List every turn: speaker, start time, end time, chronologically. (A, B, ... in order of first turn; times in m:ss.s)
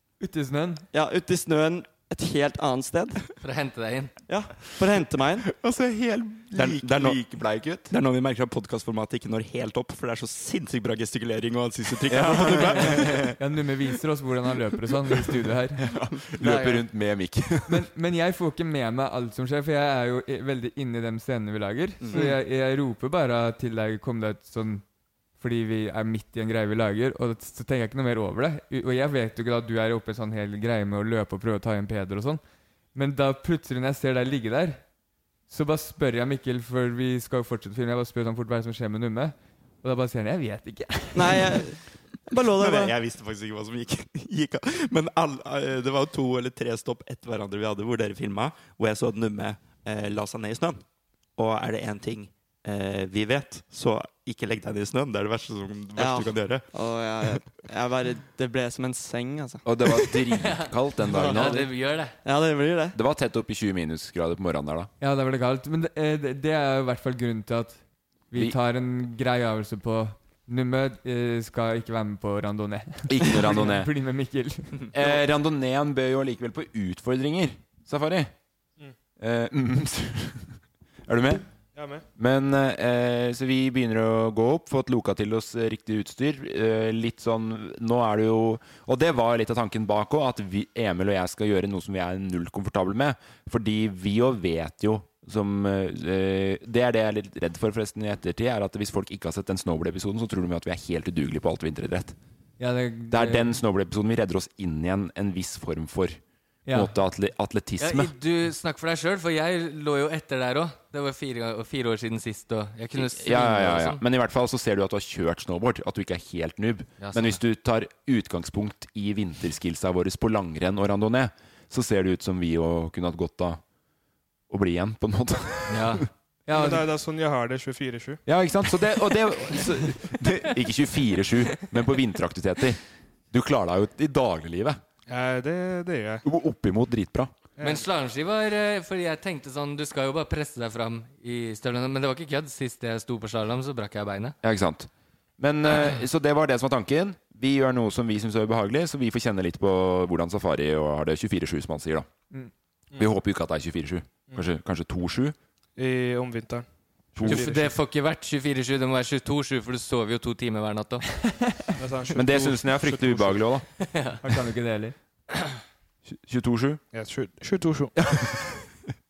0:00.2-0:00.8 A
0:00.9-0:03.2 B
0:03.4-0:04.1 C
0:04.3-0:05.5 B
0:05.5-0:07.9 D
0:06.5-0:07.2 E
0:07.9-0:13.4 E
0:12.1-0:13.4 D
0:13.4-0:15.8 A
0:15.8-0:17.9 D
0:17.7-0:24.8 A
0:22.0-0:22.3 E
0:25.4-0:32.4 A
0:33.0-0:34.8 A
0:35.5-0:41.4 A
0:41.1-0:43.0 B
0:42.5-0:50.8 E
0:51.4-0:56.7 E
0:56.0-1:00.1 B
0:59.6-1:01.7 D
1:00.3-1:02.2 C
1:01.0-1:01.7 B
1:02.2-1:03.0 B
1:03.0-1:04.9 D
1:05.0-1:14.9 A
1:13.1-1:13.9 D
1:14.9-1:18.3 D
1:19.2-1:21.4 D
1:21.8-1:22.1 F
1:22.2-1:42.2 D
1:42.6-1:43.6 A
1:43.1-1:46.2 D
1:46.7-1:47.0 A
1:46.7-1:48.1 D
1:47.8-1:54.0 C
1:53.0-2:03.6 D
1:57.0-1:57.4 C
2:04.5-2:06.0 D
2:05.7-2:06.1 C
2:06.5-2:06.9 A
2:06.5-2:08.2 F
2:08.3-2:14.8 D
2:15.1-2:16.2 F
2:16.2-2:17.3 D
2:17.6-2:17.8 F
2:17.6-2:24.4 C
2:24.4-2:32.1 D
2:33.0-2:35.4 D
2:35.8-2:37.7 F
2:37.2-2:37.5 D
2:37.3-2:41.1 C
2:41.8-2:43.4 F
2:42.2-2:43.7 D
2:43.8-2:44.2 C
2:44.2-2:45.0 A
2:46.1-2:46.8 D
2:46.9-2:47.9 F